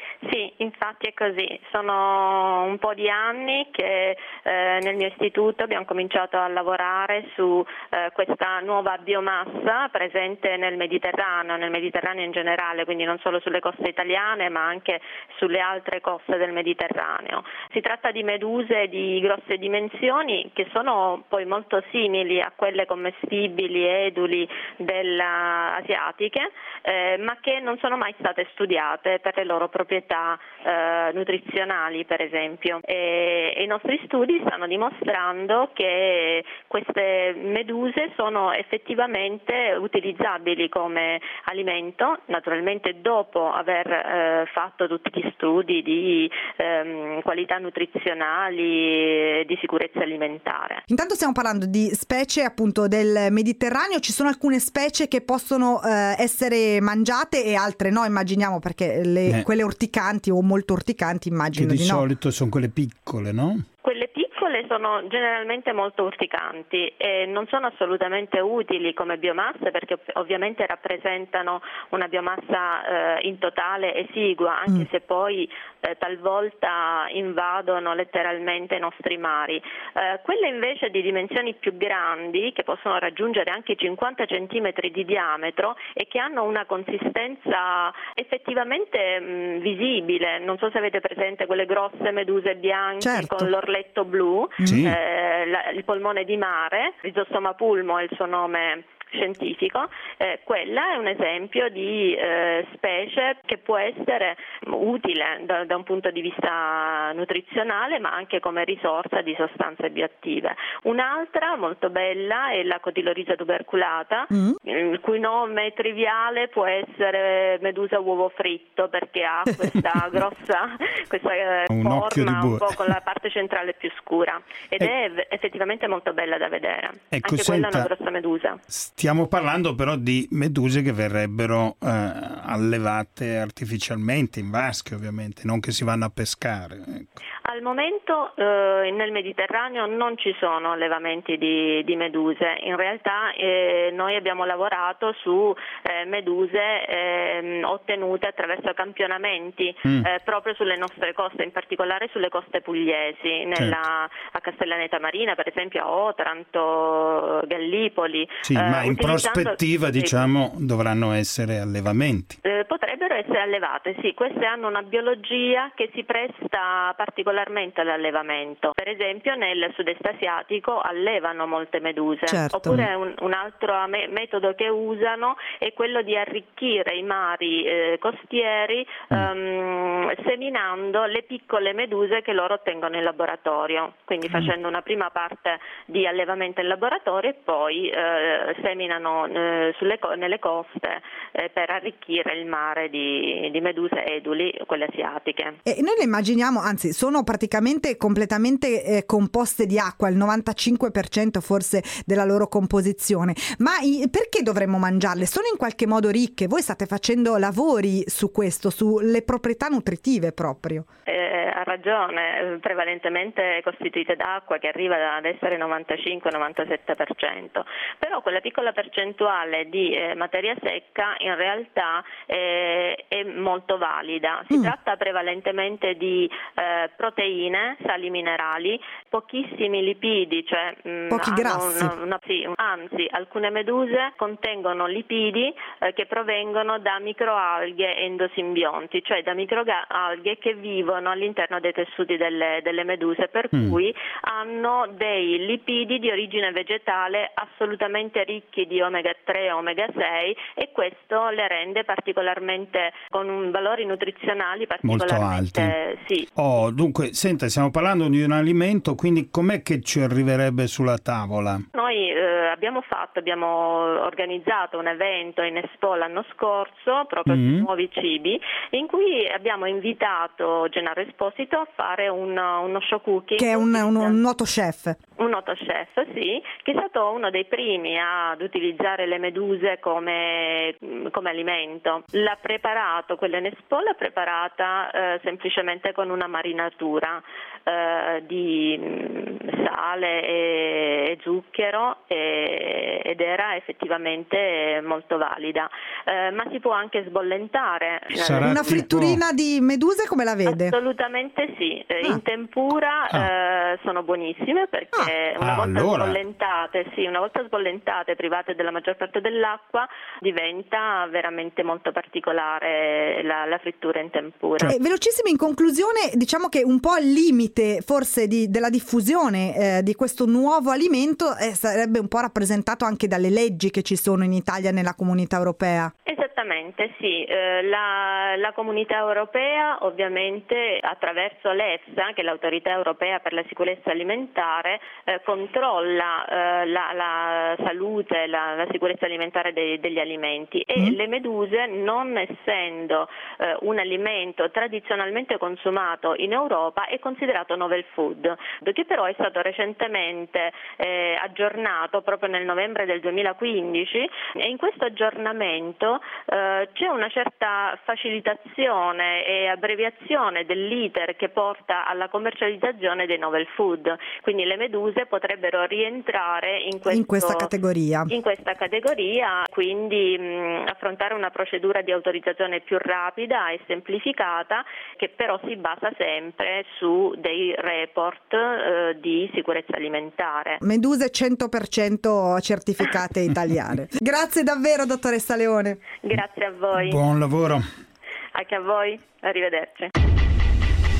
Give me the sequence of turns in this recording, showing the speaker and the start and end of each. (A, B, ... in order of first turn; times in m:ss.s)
0:00.2-0:50.8 A
0:50.9-1:02.1 B
1:01.5-1:03.6 C
1:03.8-2:08.6 A
1:33.0-1:33.5 B
1:34.6-1:34.9 B
1:34.6-1:35.0 C
1:54.3-1:54.6 B
2:01.7-2:02.8 C
2:07.1-2:07.9 C
2:08.7-2:17.2 C
2:17.5-2:40.3 A
2:38.4-2:42.4 C
2:42.4-3:15.6 A
2:52.3-2:52.8 B
3:15.7-3:30.8 B
3:31.1-4:16.3 A
3:51.1-3:52.0 B
4:14.8-4:15.7 C
4:16.4-4:21.6 C
4:21.7-4:34.2 A
4:27.3-4:27.7 C
4:33.4-4:35.0 B
4:35.2-4:58.8 A
4:58.1-4:59.2 C
4:58.4-5:00.8 B
5:00.5-5:14.7 A
5:05.4-5:06.2 C
5:14.7-5:25.9 B
5:26.1-6:07.5 A
6:06.9-6:08.1 B
6:08.1-6:20.6 A
6:20.6-6:25.8 B
6:26.0-6:27.0 A
6:26.7-6:27.6 C
6:28.3-6:29.9 A